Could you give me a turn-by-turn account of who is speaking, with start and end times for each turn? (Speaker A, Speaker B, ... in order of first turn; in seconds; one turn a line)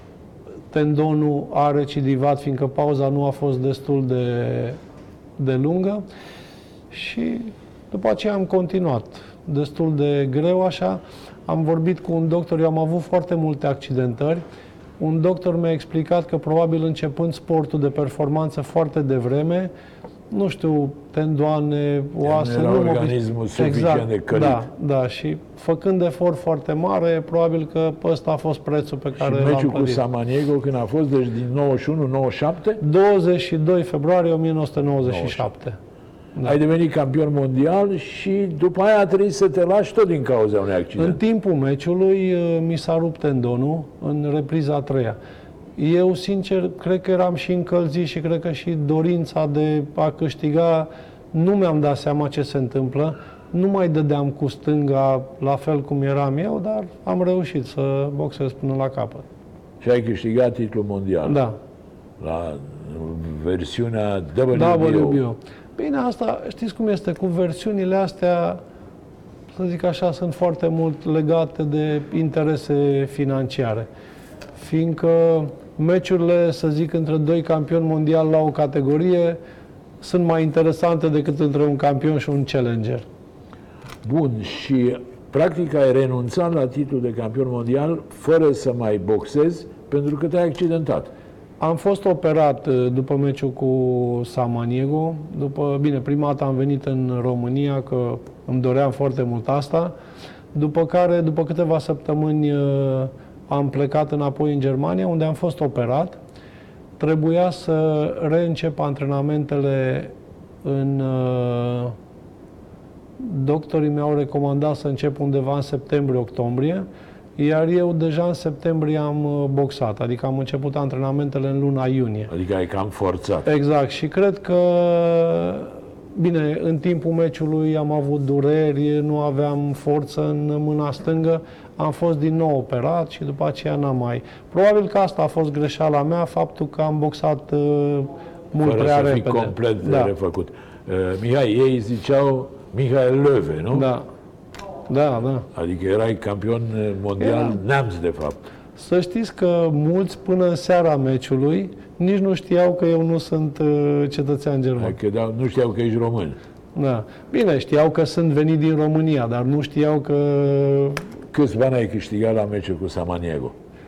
Speaker A: 0.7-4.8
Speaker A: 5.4-6.0
Speaker A: 6.9-14.4
Speaker A: 15.0-19.7
Speaker A: 20.3-30.0
Speaker B: 22.2-24.6
Speaker B: 29.2-32.8
Speaker A: 32.8-35.8
Speaker B: 35.0-35.5
Speaker B: 36.4-41.2
Speaker A: 41.0-45.2
Speaker A: 45.8-59.3
Speaker B: 59.8-61.4
Speaker A: 61.2-61.6
Speaker B: 62.2-65.2
Speaker A: 64.5-68.6
Speaker A: 69.5-73.9
Speaker A: 74.6-79.4
Speaker A: 80.0-83.0
Speaker B: 84.0-91.1
Speaker A: 91.6-99.9
Speaker A: 100.5-106.2
Speaker A: 107.0-110.1
Speaker A: 110.6-112.0
Speaker A: 113.2-116.9
Speaker A: 117.4-122.3
Speaker B: 122.3-123.5
Speaker A: 123.5-140.1
Speaker B: 138.6-143.9
Speaker A: 143.7-144.0
Speaker A: 144.9-145.5
Speaker B: 145.6-148.4
Speaker A: 147.2-147.6
Speaker A: 148.8-155.0
Speaker B: 154.8-156.4
Speaker A: 156.8-161.0
Speaker B: 161.3-163.6